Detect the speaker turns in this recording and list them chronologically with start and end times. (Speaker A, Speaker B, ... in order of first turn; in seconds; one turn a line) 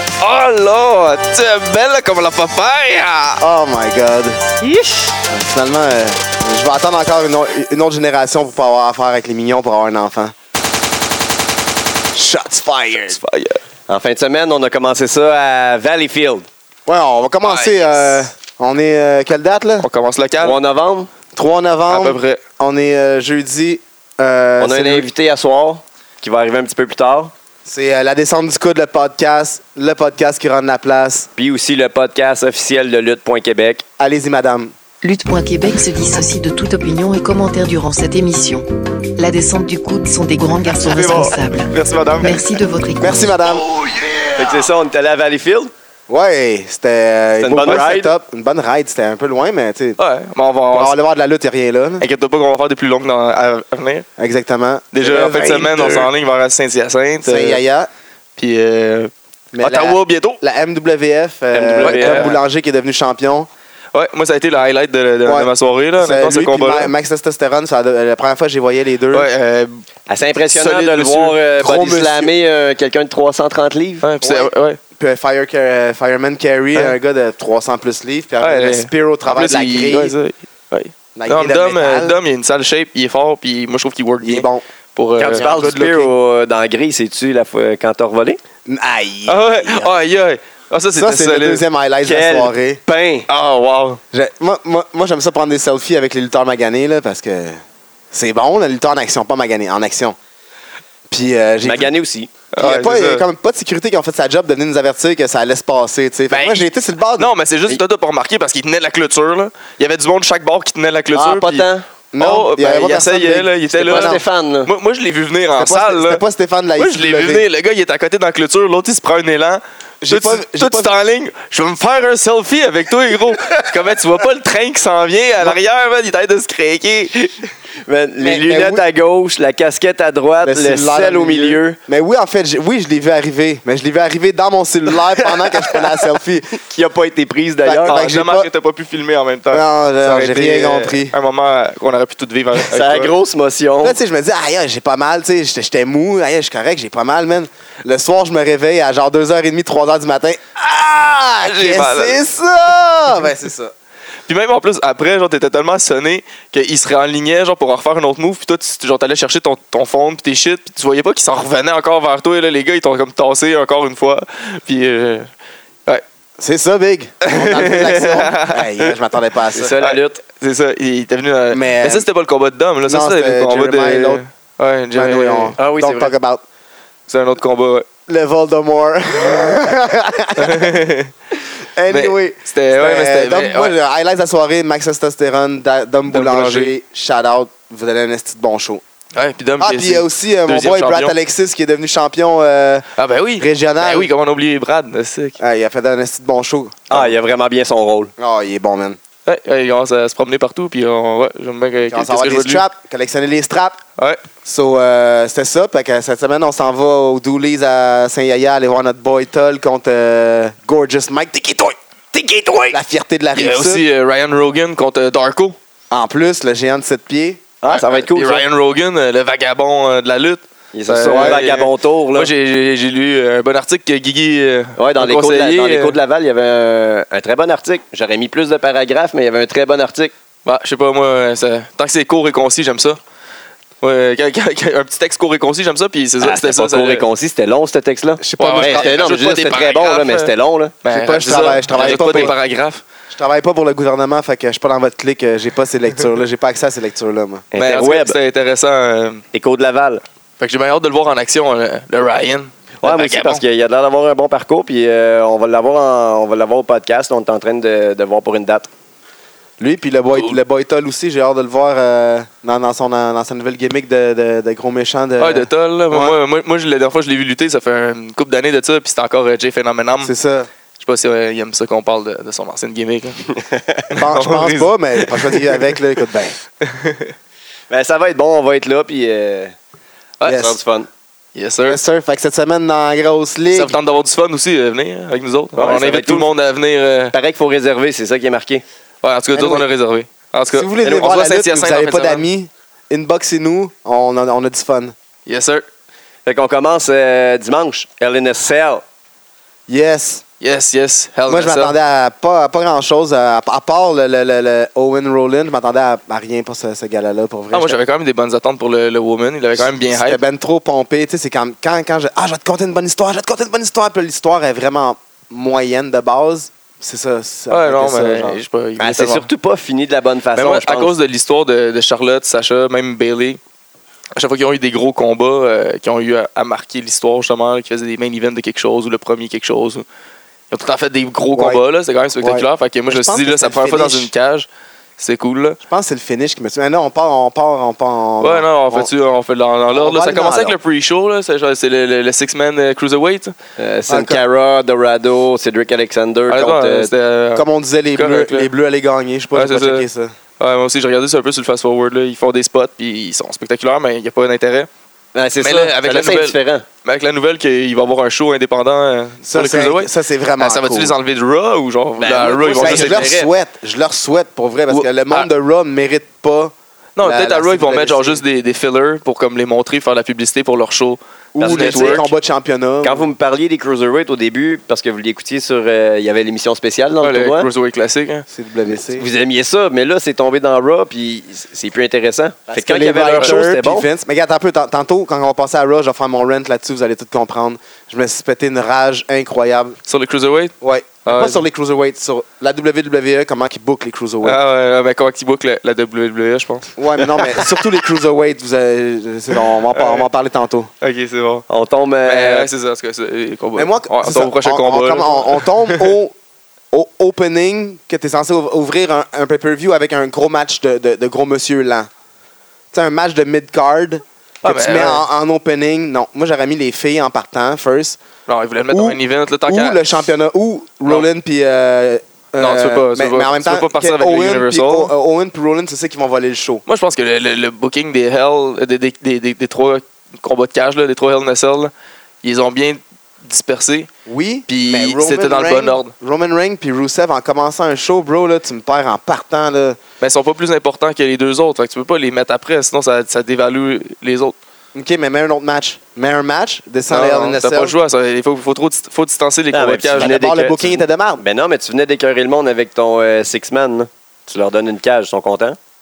Speaker A: 0.2-3.4
Speaker B: 3.4-4.4
Speaker C: 4.7-5.1
Speaker B: 5.3-10.3
Speaker B: 12.1-13.2
Speaker A: 13.1-13.6
Speaker C: 13.9-16.5
Speaker B: 16.9-19.9
Speaker A: 17.4-18.2
Speaker A: 19.8-20.6
Speaker C: 20.4-21.1
Speaker B: 21.4-25.1
Speaker A: 21.9-22.4
Speaker C: 24.6-27.3
Speaker B: 27.6-31.3
Speaker C: 31.4-33.8
Speaker B: 34.0-34.7
Speaker D: 35.0-38.7
Speaker D: 39.2-43.5
Speaker A: 40.8-42.5
Speaker B: 43.0-43.9
Speaker C: 44.3-45.7
Speaker B: 46.1-50.0
Speaker C: 47.4-48.1
Speaker A: 50.0-51.0
Speaker B: 50.7-52.0
Speaker A: 52.0-54.1
Speaker B: 54.2-55.8
Speaker A: 54.9-57.6
Speaker C: 55.0-56.1
Speaker B: 57.2-57.9
Speaker A: 58.4-60.4
Speaker B: 59.5-63.5
Speaker C: 61.5-62.4
Speaker A: 61.8-62.4
Speaker A: 63.9-66.9
Speaker B: 65.2-69.3
Speaker A: 69.1-69.8
Speaker C: 70.1-74.0
Speaker A: 70.5-71.4
Speaker B: 71.6-72.3
Speaker A: 74.0-74.8
Speaker B: 74.2-80.1
Speaker A: 78.4-85.5
Speaker B: 81.2-82.2
Speaker B: 84.2-84.6
Speaker C: 85.2-88.4
Speaker B: 85.4-86.1
Speaker B: 88.7-89.9
Speaker A: 89.3-91.7
Speaker B: 91.0-92.8
Speaker C: 92.0-93.3
Speaker A: 93.3-94.0
Speaker B: 94.1-97.6
Speaker B: 98.1-100.2
Speaker B: 101.1-101.9
Speaker C: 101.6-102.3
Speaker A: 102.5-103.2
Speaker B: 102.6-107.3
Speaker A: 106.3-111.7
Speaker C: 111.1-111.8
Speaker B: 112.1-114.2
Speaker A: 112.2-116.2
Speaker C: 113.8-114.7
Speaker B: 115.6-117.5
Speaker A: 116.8-127.4
Speaker B: 120.0-120.9
Speaker C: 127.9-131.8
Speaker B: 128.2-128.8
Speaker B: 130.4-136.6
Speaker C: 135.3-135.9
Speaker C: 136.6-138.0
Speaker B: 137.6-138.5
Speaker A: 137.9-143.1
Speaker B: 139.5-141.2
Speaker C: 142.6-144.0
Speaker B: 143.8-153.7
Speaker A: 151.4-152.2
Speaker A: 154.3-165.3
Speaker B: 166.4-169.8
Speaker A: 167.2-169.0
Speaker C: 169.5-170.2
Speaker A: 169.8-175.6
Speaker B: 171.5-172.1
Speaker B: 172.8-174.2
Speaker B: 174.9-176.4
Speaker C: 175.6-176.1
Speaker A: 177.1-177.9
Speaker B: 178.1-180.7
Speaker A: 180.4-181.1
Speaker B: 181.8-188.8
Speaker A: 181.9-183.7
Speaker A: 186.1-186.8
Speaker A: 189.1-191.2
Speaker B: 189.6-192.9
Speaker A: 193.0-195.4
Speaker B: 193.4-194.1
Speaker B: 195.4-196.8
Speaker C: 196.9-198.1
Speaker B: 198.2-199.0
Speaker A: 199.3-202.7
Speaker B: 201.9-203.8
Speaker A: 204.0-204.2
Speaker B: 204.4-211.8
Speaker C: 212.1-212.8
Speaker B: 212.7-213.8
Speaker A: 213.3-215.6
Speaker B: 215.9-217.5
Speaker C: 217.6-218.4
Speaker A: 217.7-226.0
Speaker C: 220.7-222.3
Speaker B: 221.1-221.5
Speaker C: 224.8-230.1
Speaker A: 230.4-233.0
Speaker A: 233.8-237.1
Speaker C: 236.2-240.8
Speaker B: 238.2-238.9
Speaker A: 238.4-240.3
Speaker A: 240.8-242.8
Speaker B: 240.9-242.3
Speaker C: 241.8-242.3
Speaker B: 243.1-247.5
Speaker C: 247.5-248.2
Speaker A: 247.6-249.2
Speaker C: 249.3-250.0
Speaker A: 250.4-253.4
Speaker C: 252.8-258.7
Speaker B: 259.6-266.2
Speaker A: 265.2-270.1
Speaker B: 270.0-270.5
Speaker A: 270.8-273.3
Speaker C: 273.5-273.8
Speaker A: 273.9-275.6
Speaker B: 273.9-276.4
Speaker A: 276.6-277.1
Speaker C: 277.7-279.6
Speaker A: 280.2-280.4
Speaker B: 280.3-280.6
Speaker C: 280.3-280.9
Speaker A: 281.4-281.8
Speaker B: 281.7-283.8
Speaker A: 283.5-287.1
Speaker C: 285.6-286.3
Speaker C: 287.1-288.6
Speaker A: 289.0-292.2
Speaker B: 289.4-289.7
Speaker B: 290.5-294.9
Speaker A: 295.3-295.6
Speaker C: 296.3-298.8
Speaker B: 299.7-300.2
Speaker A: 300.4-301.8
Speaker B: 301.3-307.8
Speaker A: 307.5-310.2
Speaker B: 309.6-318.4
Speaker A: 317.5-319.3
Speaker C: 318.8-320.9
Speaker A: 320.4-323.4
Speaker A: 324.2-329.9
Speaker A: 330.5-335.6
Speaker B: 331.4-331.6
Speaker B: 332.2-334.1
Speaker B: 335.6-338.9
Speaker A: 338.2-343.4
Speaker B: 339.7-340.6
Speaker C: 343.6-346.9
Speaker B: 343.9-344.2
Speaker A: 346.3-348.5
Speaker B: 347.4-350.1
Speaker A: 349.3-349.9
Speaker A: 350.4-354.7
Speaker C: 355.1-356.6
Speaker A: 355.4-363.1
Speaker B: 359.2-360.9
Speaker C: 362.0-363.3
Speaker B: 362.6-368.2
Speaker A: 364.7-365.3
Speaker A: 367.0-372.1
Speaker B: 371.3-373.1
Speaker C: 371.4-372.1
Speaker C: 372.8-377.5
Speaker A: 377.0-378.2
Speaker B: 378.3-379.1
Speaker C: 378.9-383.9
Speaker B: 382.5-389.8
Speaker A: 389.9-390.5
Speaker B: 390.6-394.4
Speaker A: 391.1-391.4
Speaker A: 394.2-397.6
Speaker B: 396.8-400.7
Speaker A: 399.7-400.1
Speaker A: 400.8-401.4
Speaker C: 401.5-402.5
Speaker A: 402.1-405.9
Speaker B: 403.6-406.1
Speaker B: 406.7-411.9
Speaker B: 412.7-418.0
Speaker A: 414.4-415.1
Speaker A: 418.3-419.8
Speaker B: 418.7-426.6
Speaker A: 422.4-424.9
Speaker A: 426.7-431.7
Speaker A: 432.2-433.9
Speaker B: 434.1-439.8
Speaker A: 434.5-435.9
Speaker A: 440.0-444.4
Speaker B: 444.7-447.8
Speaker A: 446.9-450.2
Speaker C: 449.5-455.6
Speaker B: 450.0-451.2